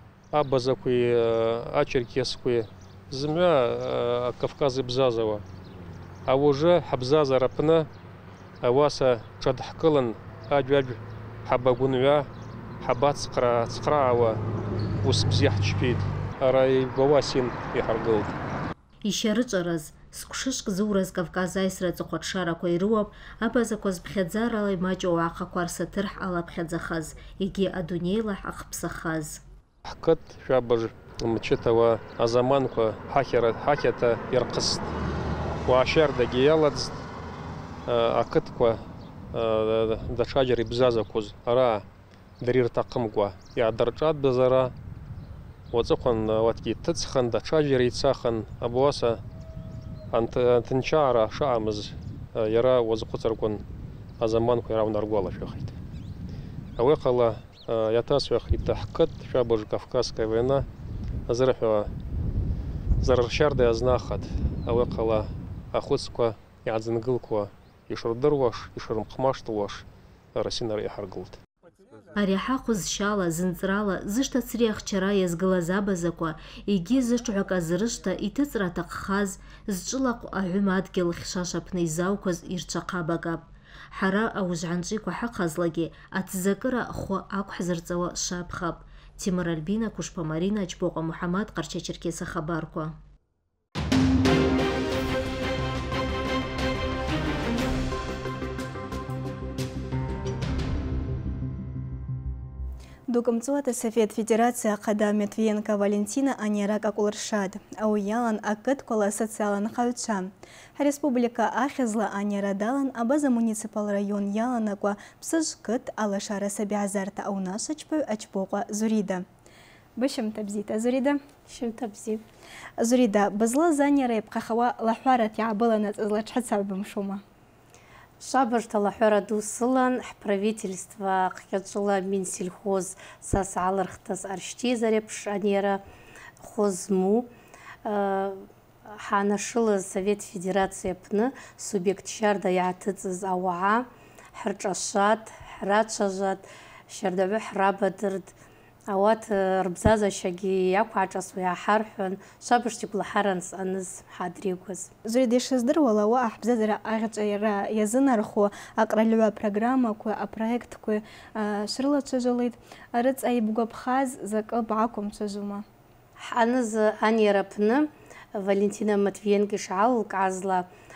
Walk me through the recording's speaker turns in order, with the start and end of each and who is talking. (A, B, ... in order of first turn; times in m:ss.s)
0:00.3-0:05.4 A
0:06.3-0:07.9 A
0:08.6-0:12.3 A
0:12.8-0:14.4 A
0:15.0-0:18.4 A
0:19.0-0:29.4 B
0:29.8-0:34.9 A
0:35.7-0:37.0 A
0:37.9-0:38.8 A
0:39.3-0:41.8 A
0:42.4-0:44.7 A
0:45.7-0:49.2 A
0:50.1-0:53.6 A
0:54.2-0:55.8 A
0:56.8-1:00.7 A
1:01.3-1:01.9 A
1:03.0-1:11.4 A
1:12.2-1:33.0 B
1:43.1-1:59.2 C
2:00.0-2:01.2 C
2:01.5-2:02.2 D
2:02.8-2:07.2 C
2:08.2-2:15.8 D
2:16.4-2:17.3 D
2:17.8-2:28.3 D
2:28.9-2:34.9 D
2:35.1-2:45.6 C
2:46.3-2:50.7 D